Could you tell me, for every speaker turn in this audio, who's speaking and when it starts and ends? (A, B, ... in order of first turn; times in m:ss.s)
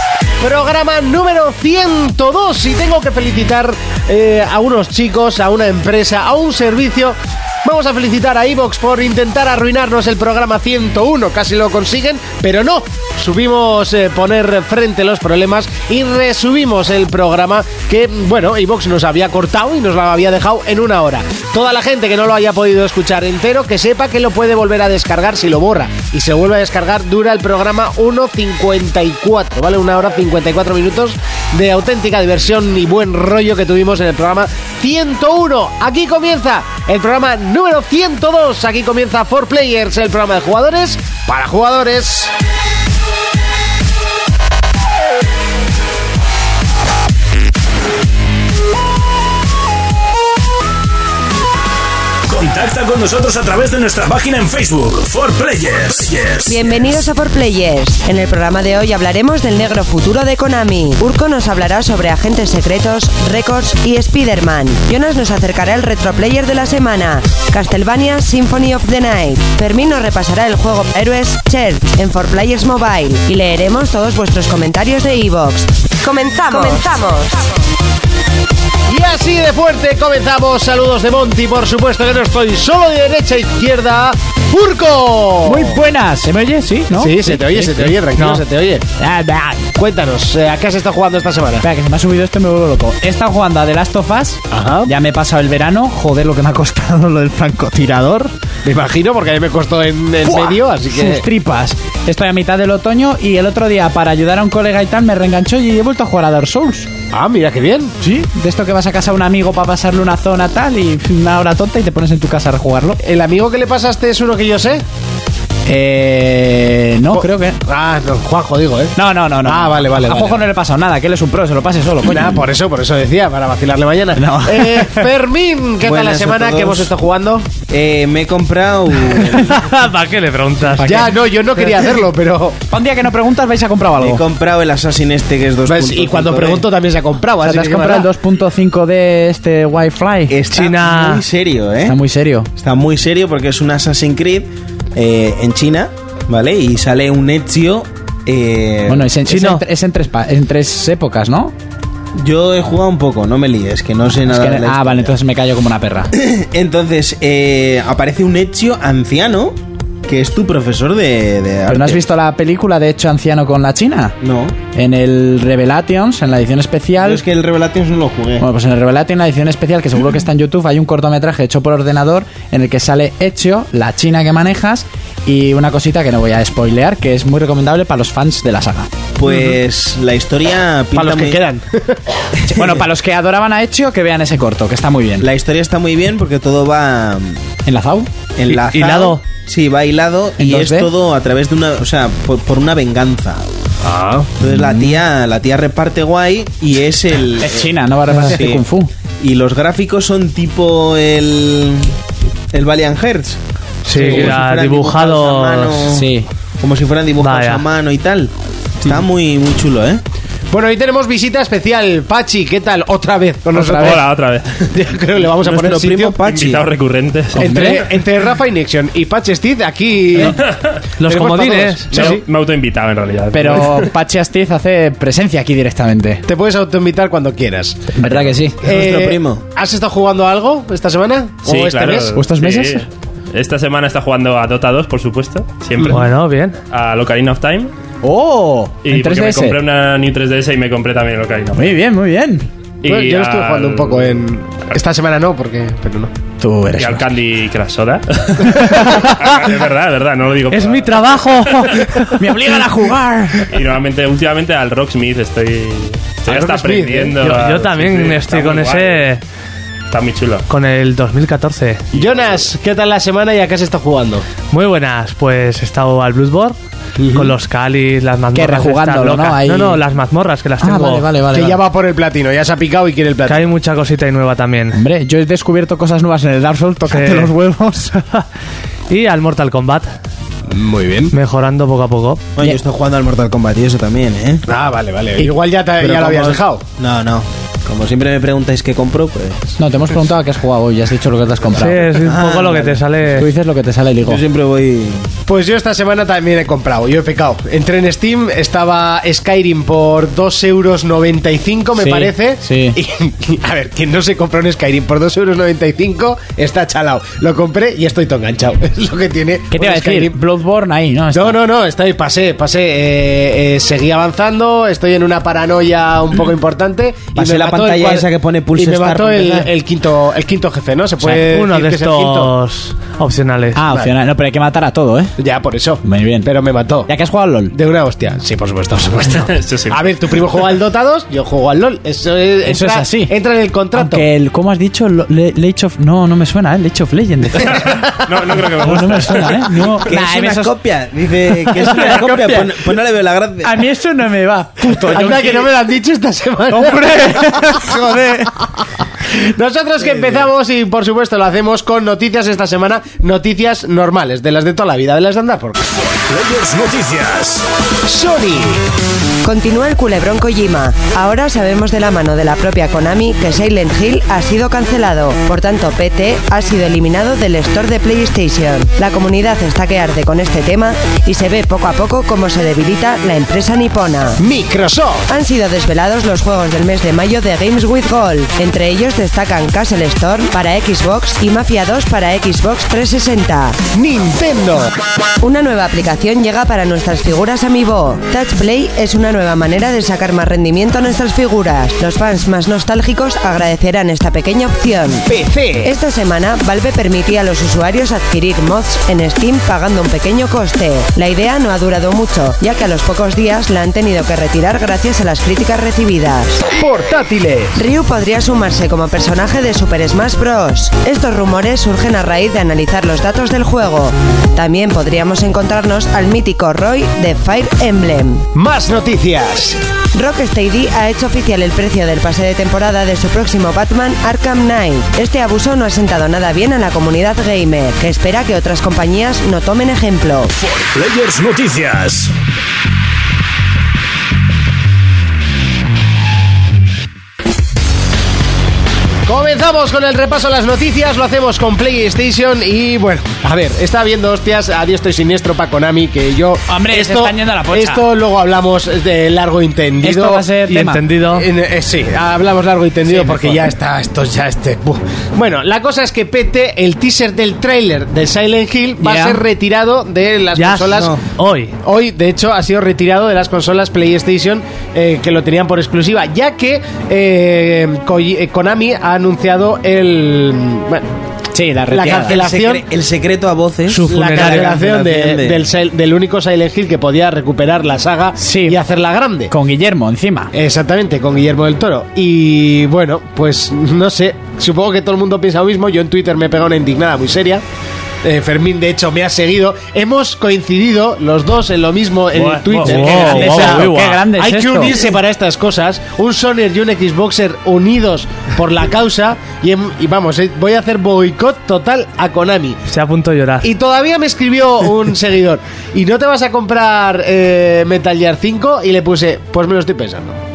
0:00.4-0:42.3 A
0:52.3-0:56.9 B
0:56.4-1:17.4 C
1:18.9-1:25.8 A
1:25.4-1:28.0 D
1:26.9-1:28.9 A
1:28.2-1:28.4 E
1:29.0-1:29.7 D
1:29.7-1:31.6 A
1:31.6-1:38.3 D
1:34.5-1:34.9 A
1:38.6-1:41.2 A
1:40.2-1:46.9 D
1:47.1-1:47.9 A
1:48.0-1:53.0 D
1:53.0-1:54.8 A
1:55.6-1:57.6 D
1:57.1-2:00.4 A
1:58.9-2:02.5 D
2:02.0-2:07.5 A
2:04.2-2:05.1 D
2:05.8-2:06.9 F
2:07.7-2:09.6 F
2:09.4-2:10.9 E
2:10.6-2:11.2 D
2:10.8-2:12.6 A
2:12.7-2:14.2 D
2:14.0-2:16.6 F
2:15.6-2:18.1 A
2:17.4-2:20.3 D
2:20.3-2:22.0 F
2:20.5-2:21.2 E
2:21.8-2:22.5 D
2:22.6-2:29.1 F
2:28.9-2:31.5 D
2:29.3-2:29.6 E
2:32.2-2:35.1 F
2:34.1-2:36.1 D
2:36.1-2:42.0 F
2:41.7-2:44.2 D
2:44.2-2:44.6 F
2:44.7-2:47.2 D
2:47.0-2:48.5 F
2:48.4-2:58.9 D
2:59.2-3:01.4 F
3:00.9-3:02.0 A
3:02.4-3:02.8 F
3:02.4-3:05.3 D
3:05.2-3:07.5 F
3:07.6-3:08.1 D
3:08.4-3:13.4 F
3:08.5-3:09.2 E
3:10.4-3:10.9 D
3:13.8-3:14.3 A
3:14.4-3:18.6 F
3:14.4-3:15.0 D
3:17.4-3:18.9 D
3:19.2-3:21.9 F
3:22.5-3:26.1 F
3:23.8-3:25.8 E
3:23.9-3:24.2 A
3:25.9-3:26.3 D
3:26.6-3:30.0 F
3:27.2-3:27.6 E
3:30.5-3:34.0 A
3:33.6-3:34.7 G
3:33.6-3:34.0 D
3:34.7-3:36.2 A
3:35.3-3:36.7 F
3:36.2-3:37.8 G
3:37.3-3:37.9 D
3:37.4-3:40.4 A
3:41.0-3:41.9 E
3:41.0-3:42.2 A
3:41.9-3:42.2 D
3:41.9-3:43.9 G
3:43.3-3:46.2 D
3:46.2-3:47.9 A
3:48.0-3:48.6 D
3:48.6-3:49.4 F
3:48.6-3:52.2 A
3:51.4-3:56.1 G
3:52.1-3:52.8 D
3:55.9-3:56.6 E
3:56.6-3:57.7 G
3:58.0-3:59.6 D
3:58.8-4:01.7 G
4:01.5-4:02.5 D
4:02.8-4:04.8 G
4:02.8-4:06.1 A
4:06.4-4:07.0 D
4:06.7-4:11.9 G
4:08.6-4:08.9 D
4:10.5-4:12.2 E
4:12.2-4:13.5 D
4:13.5-4:19.1 G
4:16.2-4:17.2 A
4:17.2-4:19.2 E
4:19.9-4:20.4 G
4:20.5-4:21.8 E
4:21.9-4:24.2 A
4:21.9-4:22.4 G
4:24.5-4:26.6 E
4:27.0-4:27.3 A
4:27.1-4:31.0 E
4:28.3-4:29.8 D
4:30.6-4:31.6 D
4:31.3-4:33.5 A
4:33.3-4:34.8 E
4:34.7-4:38.1 D
4:36.9-4:37.3 E
4:38.9-4:39.9 E
4:40.5-4:41.1 A
4:41.1-4:42.2 E
4:42.4-4:44.4 F
4:44.5-4:46.6 A
4:45.8-4:49.6 F
4:49.6-4:52.0 D
4:51.6-4:53.3 E
4:52.0-4:52.8 F
4:53.2-4:54.2 D
4:54.0-4:55.1 F
4:55.3-5:10.1 A
5:01.8-5:02.8 D
5:09.5-5:11.4 D
5:11.1-5:22.3 A
5:17.1-5:19.5 F
5:21.0-5:23.6 E
5:23.5-5:25.1 D
5:25.2-5:26.9 A
5:25.8-5:26.3 D
5:26.8-5:27.5 D
5:27.5-5:34.0 A
5:29.2-5:29.8 G
5:32.4-5:33.1 D
5:33.7-5:40.5 D
5:37.5-5:39.7 G
5:39.8-5:43.6 F
5:41.3-5:42.7 D
5:43.4-5:45.5 D
5:44.8-5:47.0 A
5:46.5-5:48.3 D
5:47.6-5:48.1 A
5:49.1-5:55.6 A
5:55.9-5:57.4 B
5:57.8-5:58.6 A
5:59.2-6:14.2 C
6:14.2-6:15.1 A
6:15.1-6:23.6 C
6:23.7-6:24.7 A
6:25.2-6:35.0 C
6:35.1-6:35.7 A
6:35.6-6:46.4 C
6:46.5-6:47.5 A
6:47.5-6:58.2 C
6:58.3-6:59.6 A
6:59.9-7:10.3 C
7:10.4-7:12.1 B
7:19.0-7:30.3 A
7:26.5-7:27.9 D
7:29.8-7:30.8 D
7:30.4-7:31.3 E
7:31.0-7:40.9 A
7:32.8-7:33.4 D
7:38.8-7:39.2 D
7:40.3-7:41.6 E
7:40.7-7:41.0 F
7:41.6-7:50.9 A
7:51.3-7:52.2 D
7:51.7-7:52.6 A
7:51.7-7:55.4 F
7:53.7-7:54.5 E
7:53.8-7:59.3 A
7:58.1-7:58.6 D
7:59.3-8:00.3 D
8:00.3-8:07.4 A
8:08.0-8:22.6 A
8:12.1-8:14.8 D
8:12.6-8:14.0 E
8:22.7-8:23.5 E
8:23.4-8:30.2 A